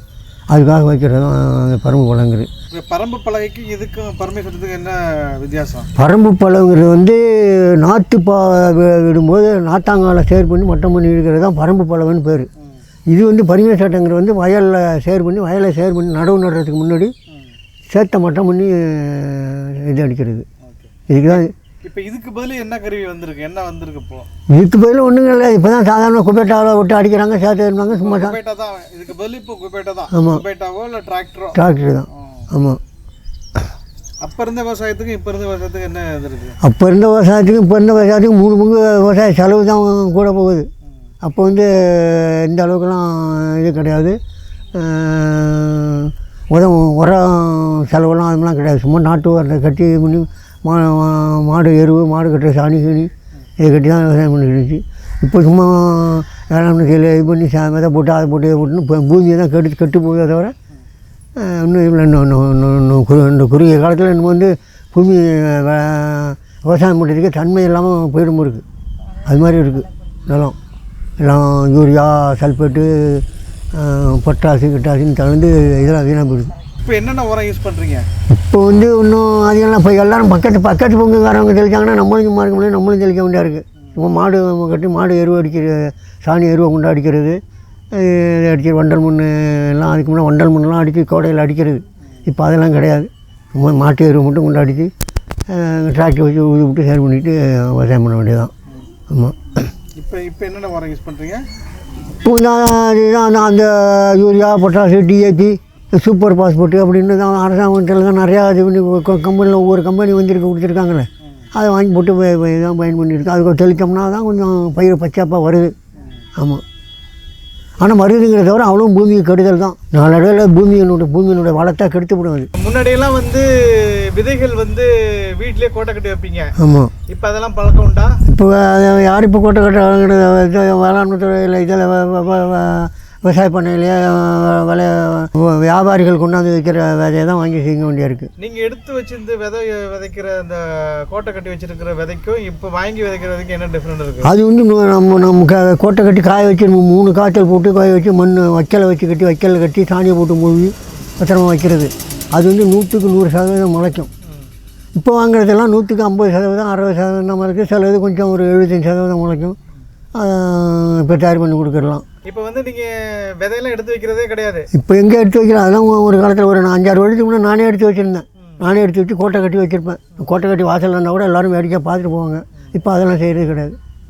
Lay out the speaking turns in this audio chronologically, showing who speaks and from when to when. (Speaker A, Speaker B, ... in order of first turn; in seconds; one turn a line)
Speaker A: 0.5-2.5
Speaker B: 2.7-5.9
Speaker A: 6.0-12.5
Speaker A: 13.1-17.1
Speaker A: 17.9-20.4
Speaker B: 20.7-24.3
Speaker A: 21.1-21.5
Speaker A: 24.5-28.4
Speaker B: 27.9-31.6
Speaker A: 30.1-30.4
Speaker A: 31.5-32.8
Speaker B: 32.1-32.5
Speaker B: 34.2-36.6
Speaker A: 36.6-40.7
Speaker A: 41.2-44.2
Speaker A: 44.7-60.5
Speaker A: 61.4-68.6
Speaker A: 69.2-70.5
Speaker A: 71.2-76.5
Speaker B: 76.8-78.0
Speaker A: 78.3-87.4
Speaker A: 87.9-94.9
Speaker A: 95.5-98.5
Speaker A: 99.1-99.4
Speaker B: 100.0-101.4
Speaker A: 102.2-115.7
Speaker B: 116.0-116.2
Speaker A: 116.4-116.6
Speaker A: 117.8-122.5
Speaker B: 122.5-126.5
Speaker A: 126.6-126.9
Speaker B: 127.1-128.2
Speaker A: 128.2-138.3
Speaker B: 138.4-144.3
Speaker A: 144.2-154.1
Speaker A: 154.9-159.6
Speaker A: 160.1-162.0
Speaker B: 162.2-164.7
Speaker A: 164.7-173.8